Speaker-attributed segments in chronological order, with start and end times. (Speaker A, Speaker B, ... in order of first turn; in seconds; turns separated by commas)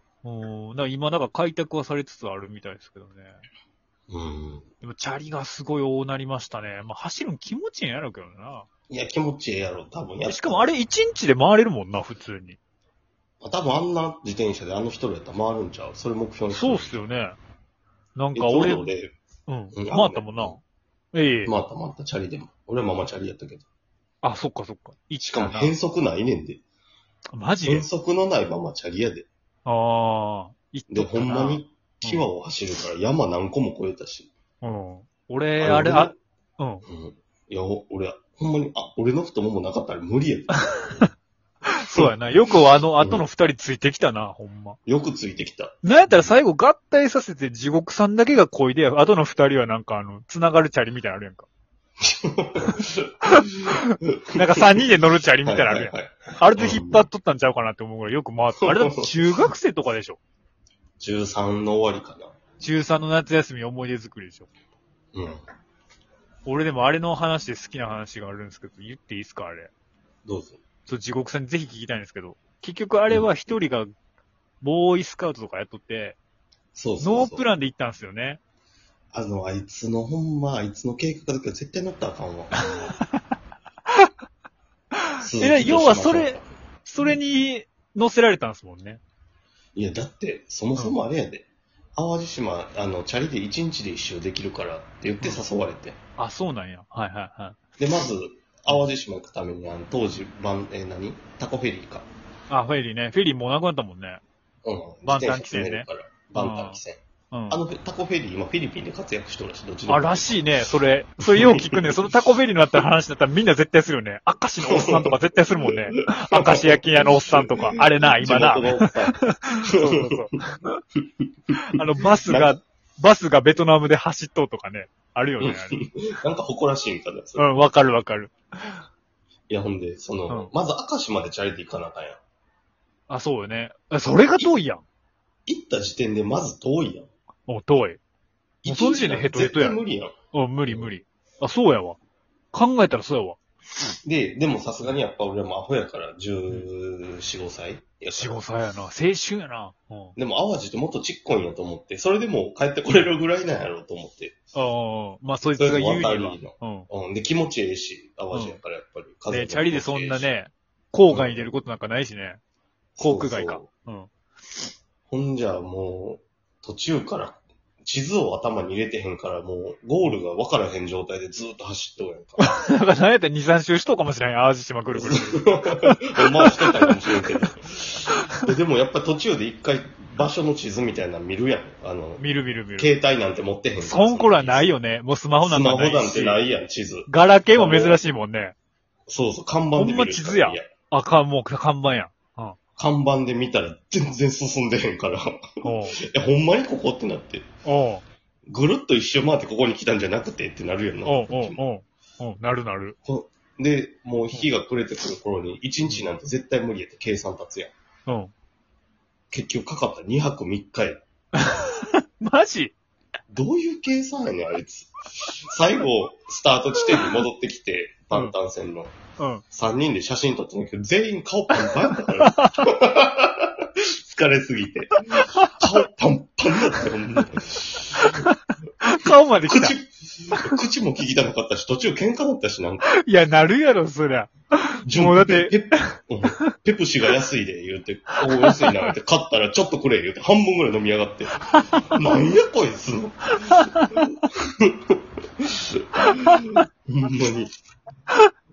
Speaker A: 0.2-3.4, Speaker B: 4.1-4.7, Speaker A: 4.8-8.7, Speaker B: 8.9-10.7, Speaker A: 10.2-12.6, Speaker B: 13.4-17.0, Speaker A: 16.5-17.4, Speaker A: 18.1-18.9, Speaker B: 18.3-19.1, Speaker A: 19.5-20.6, Speaker B: 19.7-20.6, Speaker A: 21.1-21.5, Speaker B: 21.4-23.6, Speaker A: 24.2-25.7, Speaker B: 25.2-26.6, Speaker A: 27.3-27.9, Speaker B: 27.6-29.3, Speaker A: 29.6-32.2, Speaker B: 30.9-34.3, Speaker A: 34.6-36.8, Speaker B: 35.6-36.1, Speaker B: 36.9-41.0, Speaker A: 40.7-41.1, Speaker A: 41.6-44.8, Speaker B: 43.0-43.2, Speaker B: 44.9-46.3, Speaker A: 45.8-51.5, Speaker B: 52.0-54.8, Speaker A: 53.3-60.2, Speaker B: 55.4-57.1, Speaker B: 58.6-59.1, Speaker B: 61.0-62.3, Speaker A: 62.6-64.5, Speaker B: 65.1-65.4, Speaker A: 66.5-69.7, Speaker B: 70.2-70.6, Speaker A: 70.9-73.9, Speaker A: 74.6-76.2, Speaker B: 76.7-77.5, Speaker A: 77.0-78.4, Speaker B: 79.1-82.9, Speaker A: 82.6-82.9, Speaker A: 85.2-89.0, Speaker B: 85.2-86.5, Speaker B: 89.7-91.5, Speaker B: 92.0-96.0, Speaker A: 96.2-97.6, Speaker B: 97.8-102.1, Speaker A: 102.5-104.2, Speaker B: 104.6-107.0, Speaker A: 105.0-107.6, Speaker B: 107.5-110.6, Speaker A: 109.9-120.4, Speaker B: 111.2-112.1, Speaker B: 114.7-120.4, Speaker B: 121.0-121.2, Speaker A: 121.6-125.8, Speaker B: 121.8-122.6, Speaker B: 125.4-127.5, Speaker A: 127.4-128.8, Speaker B: 129.5-132.2, Speaker A: 133.1-134.8, Speaker B: 135.5-137.1, Speaker A: 137.5-138.0, Speaker A: 138.6-139.8, Speaker B: 138.6-140.1, Speaker A: 140.3-142.0, Speaker B: 140.7-140.9, Speaker A: 142.5-143.4, Speaker B: 144.0-148.4, Speaker A: 148.2-150.2, Speaker B: 150.2-154.4, Speaker A: 154.5-156.9, Speaker B: 155.5-160.3, Speaker A: 158.3-158.6, Speaker A: 159.3-162.4, Speaker B: 161.1-161.5, Speaker B: 163.0-163.7, Speaker A: 163.0-164.1, Speaker B: 165.1-172.6, Speaker A: 172.4-177.4, Speaker B: 174.9-184.8, Speaker A: 182.2-182.9, Speaker A: 183.8-186.4, Speaker B: 185.4-188.0, Speaker A: 187.1-188.5, Speaker B: 189.1-190.7, Speaker A: 189.8-192.6, Speaker B: 192.8-197.4, Speaker A: 195.6-196.0, Speaker A: 197.6-198.0, Speaker B: 198.5-201.6, Speaker A: 201.1-203.0, Speaker B: 203.0-207.7, Speaker A: 208.1-208.3, Speaker B: 209.3-211.0, Speaker A: 211.4-212.7, Speaker B: 213.3-218.9, Speaker A: 219.2-219.4, Speaker B: 219.5-228.2, Speaker A: 221.6-222.6, Speaker A: 225.1-225.8, Speaker A: 228.0-229.8, Speaker B: 229.4-232.9, Speaker A: 232.8-236.5, Speaker B: 234.8-247.5, Speaker A: 238.3-238.9, Speaker A: 241.5-241.8, Speaker A: 243.4-244.0, Speaker A: 246.0-246.6